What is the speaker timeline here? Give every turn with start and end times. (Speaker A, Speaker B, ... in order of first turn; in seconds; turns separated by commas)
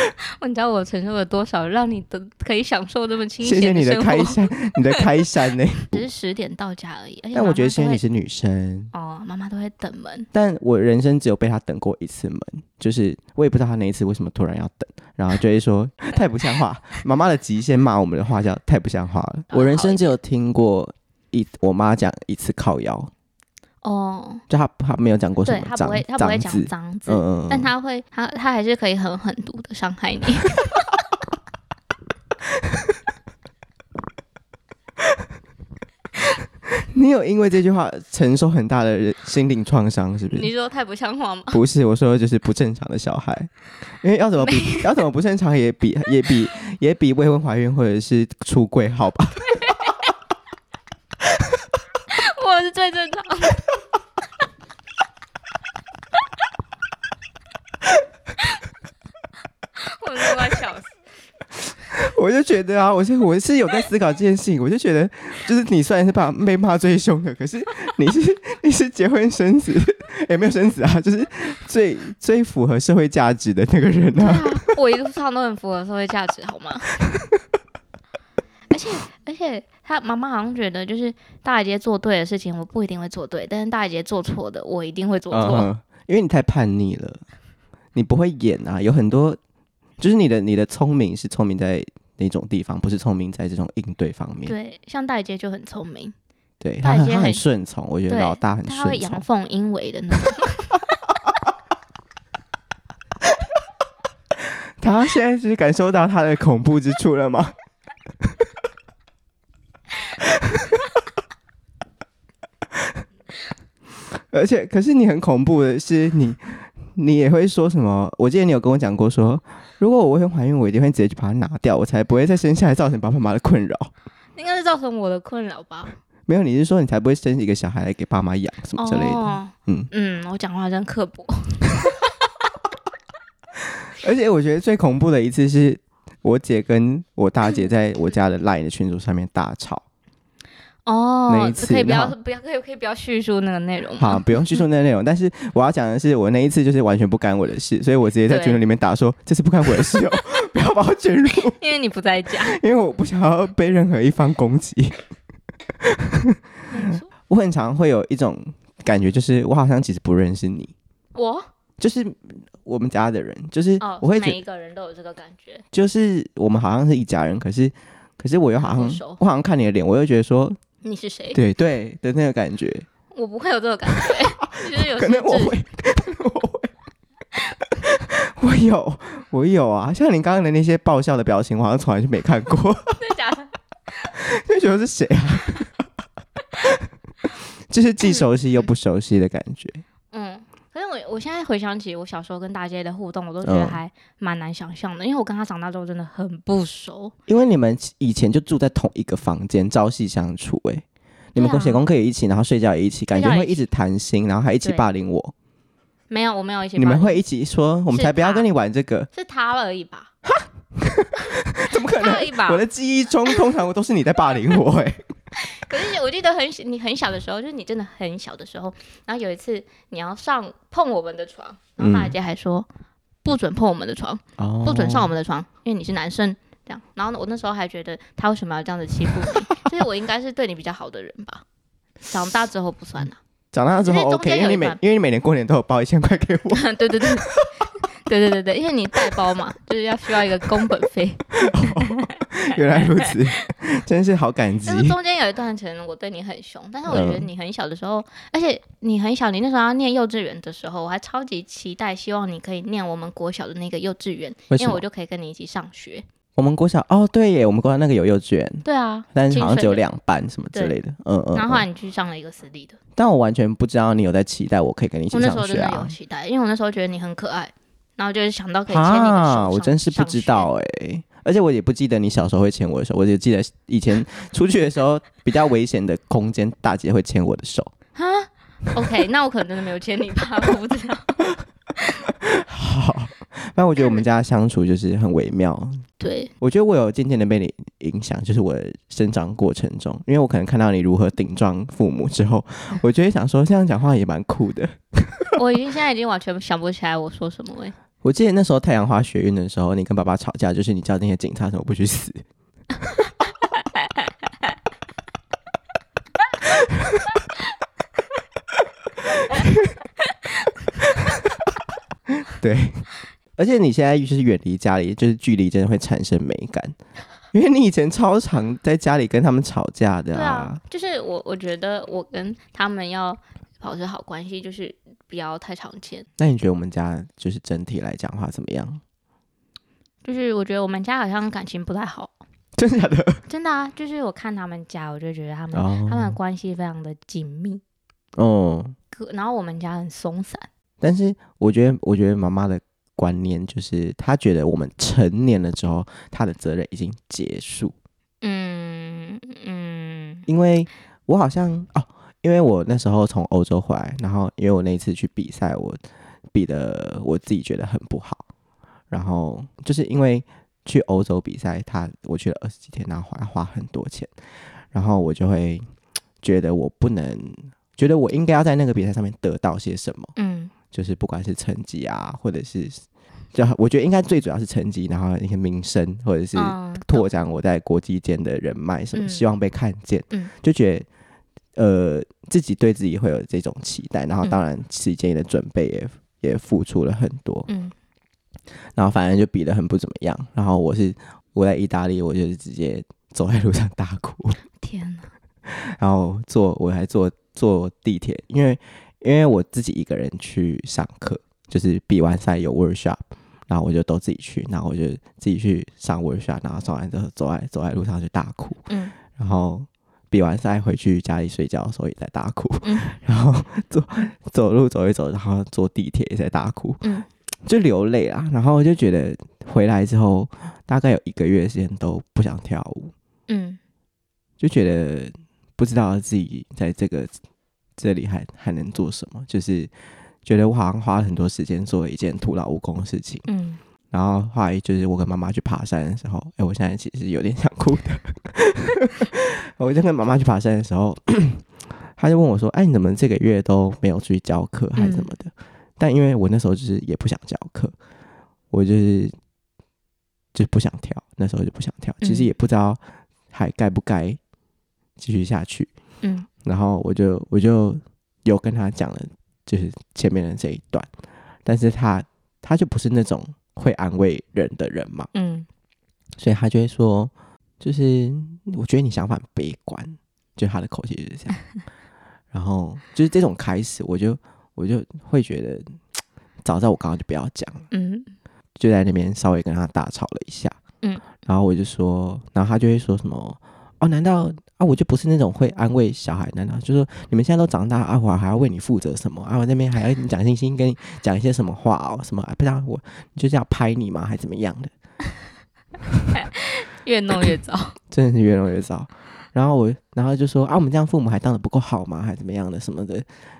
Speaker A: 0.4-5.0, Speaker B: 3.4-6.0, Speaker A: 5.9-8.0, Speaker B: 7.3-8.9, Speaker A: 8.9-10.3, Speaker B: 10.3-23.1, Speaker A: 19.5-20.1, Speaker A: 23.8-24.4, Speaker B: 24.5-27.7, Speaker A: 25.4-30.9, Speaker B: 36.8-40.5, Speaker A: 40.3-41.6, Speaker B: 41.5-43.5, Speaker B: 44.0-49.5, Speaker A: 44.4-44.9, Speaker A: 52.1-53.7, Speaker A: 59.8-60.9, Speaker B: 61.9-74.7, Speaker A: 74.2-76.9, Speaker A: 78.7-85.7, Speaker B: 85.3-87.2, Speaker B: 87.9-89.4, Speaker B: 90.0-94.5, Speaker A: 94.5-96.1, Speaker B: 96.6-99.2, Speaker A: 96.8-97.4, Speaker A: 98.1-100.8, Speaker B: 104.8-107.5, Speaker B: 114.3-123.9, Speaker A: 124.3-126.0, Speaker B: 126.3-129.9, Speaker A: 128.8-132.1, Speaker B: 133.9-139.8, Speaker A: 140.8-144.6, Speaker B: 141.3-142.1, Speaker B: 144.0-151.6, Speaker A: 148.3-148.6, Speaker A: 151.5-152.6, Speaker B: 152.4-155.0, Speaker B: 155.8-156.4, Speaker A: 156.7-157.1, Speaker B: 157.2-160.7, Speaker A: 161.1-161.5, Speaker B: 161.8-164.4, Speaker A: 163.8-165.6, Speaker B: 165.7-170.6, Speaker A: 168.6-169.2, Speaker A: 170.8-171.4, Speaker B: 171.3-172.9, Speaker A: 173.1-175.6, Speaker B: 173.9-176.7, Speaker B: 177.8-183.0, Speaker A: 183.0-183.5, Speaker B: 184.1-185.7, Speaker B: 187.7-189.8, Speaker A: 188.0-188.7, Speaker A: 190.1-197.1, Speaker B: 193.4-193.8, Speaker B: 197.3-205.3, Speaker A: 201.3-201.8, Speaker A: 203.1-203.7, Speaker A: 206.1-207.2, Speaker B: 206.8-209.1, Speaker A: 207.9-208.5, Speaker A: 209.1-210.1, Speaker B: 210.2-215.1, Speaker A: 211.7-212.6, Speaker A: 215.5-222.7, Speaker B: 221.8-222.1, Speaker A: 223.2-231.4, Speaker B: 224.4-225.1, Speaker A: 232.1-233.2, Speaker B: 233.5-237.5, Speaker A: 233.8-234.8, Speaker A: 236.5-237.4, Speaker A: 238.1-243.4, Speaker B: 241.3-244.9, Speaker A: 244.7-256.0, Speaker B: 246.9-247.3, Speaker B: 254.5-254.8, Speaker B: 256.4-261.6, Speaker A: 258.6-259.8, Speaker A: 261.3-262.8, Speaker B: 262.9-265.9, Speaker A: 265.1-270.5, Speaker B: 268.7-277.7, Speaker A: 277.9-281.2, Speaker B: 282.1-285.8, Speaker A: 286.0-286.3, Speaker B: 286.4-295.4, Speaker A: 295.4-297.7, Speaker B: 298.0-302.2, Speaker B: 309.1-309.7, Speaker B: 310.9-311.1, Speaker B: 312.2-316.8, Speaker B: 317.3-320.6, Speaker A: 320.1-326.1, Speaker B: 326.2-328.8, Speaker A: 330.0-332.2, Speaker B: 332.6-333.2, Speaker A: 333.3-337.6, Speaker B: 335.5-336.2, Speaker B: 338.2-338.8, Speaker A: 338.9-340.5, Speaker B: 340.8-347.7, Speaker A: 348.2-350.3, Speaker B: 350.3-355.8, Speaker B: 356.3-358.2, Speaker B: 358.9-364.1, Speaker B: 364.7-365.6, Speaker B: 366.2-370.1, Speaker A: 370.1-370.5, Speaker B: 370.7-372.8, Speaker B: 373.3-380.9, Speaker A: 376.3-377.1, Speaker A: 378.9-379.2, Speaker B: 381.6-387.5, Speaker A: 387.5-387.7, Speaker B: 388.8-394.4, Speaker A: 394.6-395.1, Speaker B: 395.4-416.9, Speaker A: 408.7-408.9, Speaker A: 412.6-412.9, Speaker B: 417.4-422.9, Speaker A: 423.3-423.6, Speaker B: 424.4-427.1, Speaker B: 427.8-429.7, Speaker B: 430.2-433.2, Speaker A: 433.3-433.6, Speaker B: 433.9-441.4, Speaker B: 441.9-447.7, Speaker A: 444.8-445.1, Speaker B: 448.5-449.1, Speaker B: 450.3-452.8, Speaker A: 452.0-452.3, Speaker B: 453.3-454.2, Speaker B: 455.0-455.7, Speaker A: 456.0-456.3, Speaker B: 456.4-460.9, Speaker B: 461.4-465.1, Speaker A: 465.1-465.5, Speaker B: 466.2-471.4, Speaker B: 472.3-475.8, Speaker B: 476.4-477.7, Speaker A: 477.7-478.1, Speaker B: 478.6-480.6, Speaker B: 481.2-494.7, Speaker A: 496.1-497.8, Speaker B: 497.9-503.1